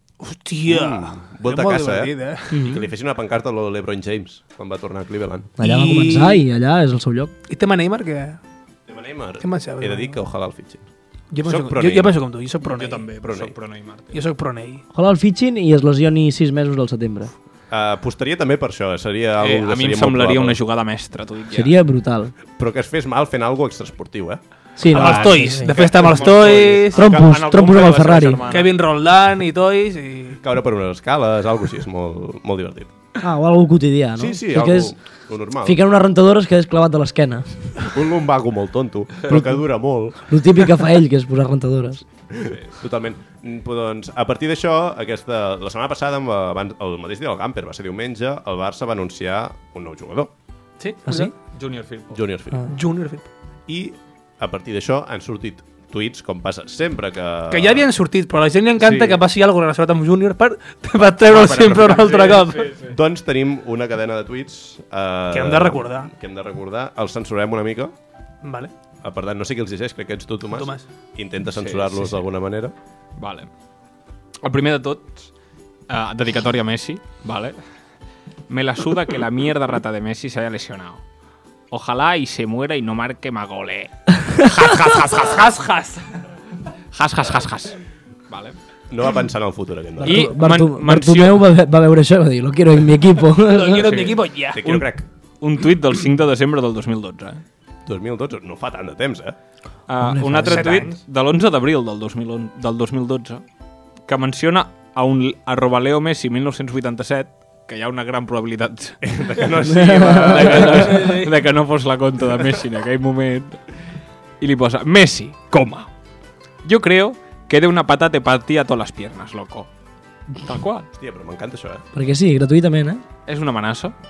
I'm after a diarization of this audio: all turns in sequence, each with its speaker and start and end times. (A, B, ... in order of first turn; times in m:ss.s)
0:00.2-0:02.6 A
0:00.7-0:05.5 B
0:02.5-0:02.9 C
0:05.6-0:07.3 C
0:05.6-0:06.4 A
0:07.5-0:08.4 A
0:08.9-0:10.8 B
0:09.4-0:10.2 A
0:11.3-0:13.0 A
0:11.4-0:12.2 B
0:12.6-0:14.2 D
0:13.2-0:13.5 B
0:14.1-0:14.8 A
0:14.9-0:17.3 C
0:17.7-0:20.6 B
0:19.4-0:21.7 D
0:21.5-0:22.3 C
0:22.6-0:26.9 B
0:24.8-0:25.7 C
0:24.9-0:27.0 A
0:25.8-0:28.7 D
0:26.9-0:28.4 C
0:28.5-0:30.4 A
0:30.4-0:32.9 B
0:33.2-0:34.9 C
0:34.2-0:35.8 B
0:35.6-0:37.8 C
0:37.9-0:40.4 B
0:39.3-0:39.6 C
0:40.2-0:42.0 C
0:42.3-0:50.3 B
0:50.8-0:51.3 A
0:51.0-0:51.3 C
0:51.5-0:52.2 D
0:52.1-0:52.7 B
0:52.7-0:53.3 A
0:53.7-0:57.8 B
0:57.5-1:02.7 A
0:58.8-0:59.2 B
1:01.2-1:02.9 D
1:02.8-1:07.9 B
1:05.3-1:06.1 A
1:08.4-1:08.7 A
1:09.0-1:12.7 B
1:10.5-1:10.8 A
1:11.5-1:12.2 D
1:13.2-1:13.5 D
1:14.4-1:15.3 D
1:15.9-1:17.6 D
1:18.5-1:21.0 D
1:21.7-1:25.6 D
1:25.2-1:26.0 A
1:26.9-1:27.8 D
1:28.3-1:28.6 D
1:28.9-1:30.4 B
1:30.0-1:33.9 C
1:30.0-1:31.5 D
1:33.4-1:34.6 A
1:33.7-1:37.4 D
1:34.6-1:35.0 B
1:37.8-1:39.4 B
1:39.9-1:43.4 D
1:40.0-1:40.8 C
1:40.4-1:41.0 A
1:44.1-1:53.6 D
1:49.0-1:50.7 B
1:49.7-1:51.0 C
1:50.5-1:51.3 A
1:54.4-1:55.9 D
1:56.6-1:59.7 D
2:00.4-2:00.9 D
2:01.0-2:01.8 B
2:01.9-2:03.0 C
2:03.2-2:03.9 D